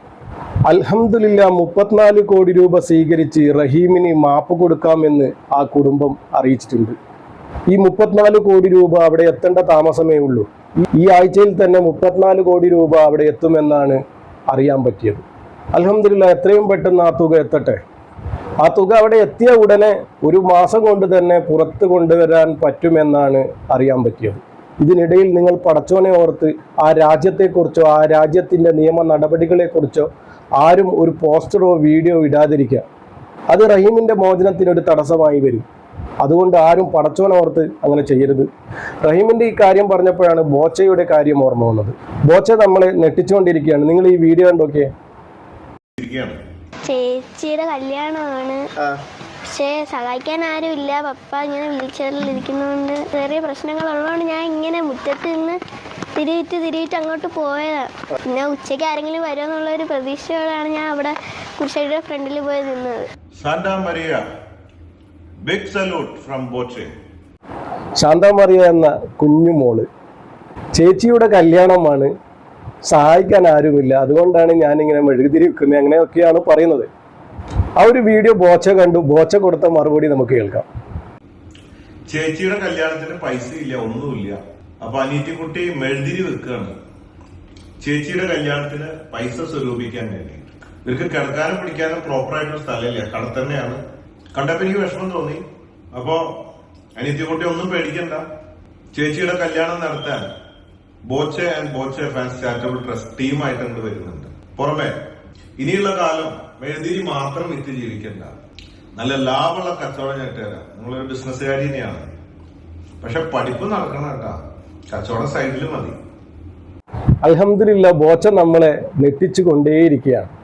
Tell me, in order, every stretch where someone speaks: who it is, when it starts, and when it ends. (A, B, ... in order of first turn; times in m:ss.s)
0:00.7-0:07.0 A
0:07.7-0:10.5 A
0:11.0-0:17.8 A
0:18.6-0:32.9 A
0:33.5-0:35.7 A
0:36.2-0:38.5 A
0:39.0-0:44.9 A
0:46.0-0:46.4 B
0:46.8-0:48.6 C
0:49.5-0:55.6 C
0:56.2-1:03.1 C
1:03.4-1:04.2 B
1:05.4-1:06.9 B
1:08.0-1:09.9 A
1:10.7-1:12.1 A
1:12.9-1:16.9 A
1:17.8-1:20.7 A
1:22.1-1:26.7 B
1:27.8-1:33.8 B
1:34.3-1:35.4 B
1:35.9-1:36.3 B
1:37.0-1:38.2 B
1:38.9-1:40.3 B
1:41.1-1:45.0 B
1:45.6-1:48.4 B
1:49.0-1:52.1 B
1:53.0-1:54.4 B
1:54.9-1:56.0 B
1:57.2-2:00.3 A